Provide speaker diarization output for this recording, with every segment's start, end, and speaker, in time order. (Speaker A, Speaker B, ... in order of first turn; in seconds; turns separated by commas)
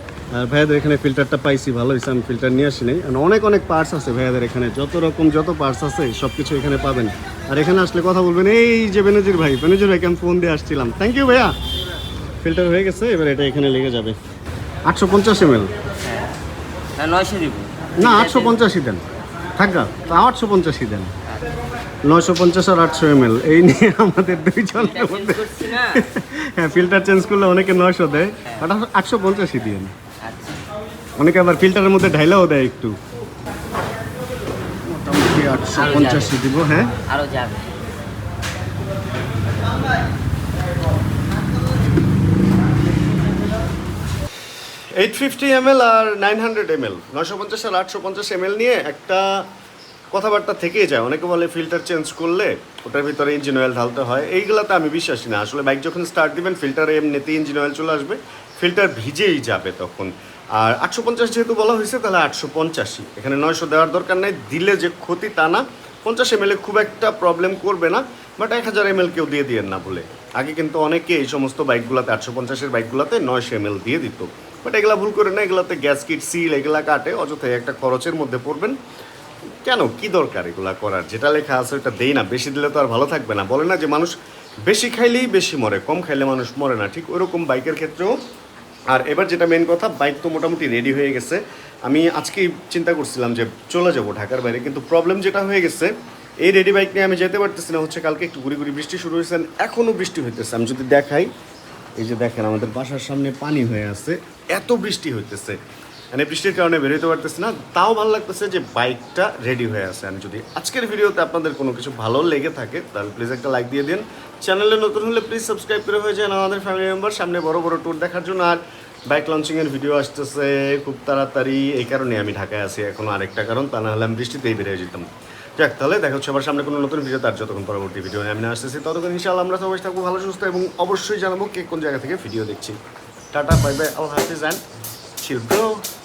Speaker A: 0.3-11.6, Speaker A: 12.4-14.2, Speaker A: 14.9-15.7, Speaker B: 16.0-16.3, Speaker B: 17.0-18.6, Speaker A: 18.0-19.1, Speaker A: 19.6-21.1, Speaker A: 22.1-29.9, Speaker B: 25.0-25.9, Speaker B: 30.2-30.6, Speaker A: 31.2-33.0, Speaker A: 34.9-37.0, Speaker B: 35.8-36.4, Speaker B: 37.0-37.7, Speaker A: 45.0-49.5, Speaker A: 50.1-78.8, Speaker A: 79.6-88.2, Speaker A: 88.9-101.3, Speaker A: 102.0-105.6, Speaker A: 106.1-132.8, Speaker A: 133.3-134.6, Speaker A: 135.2-135.8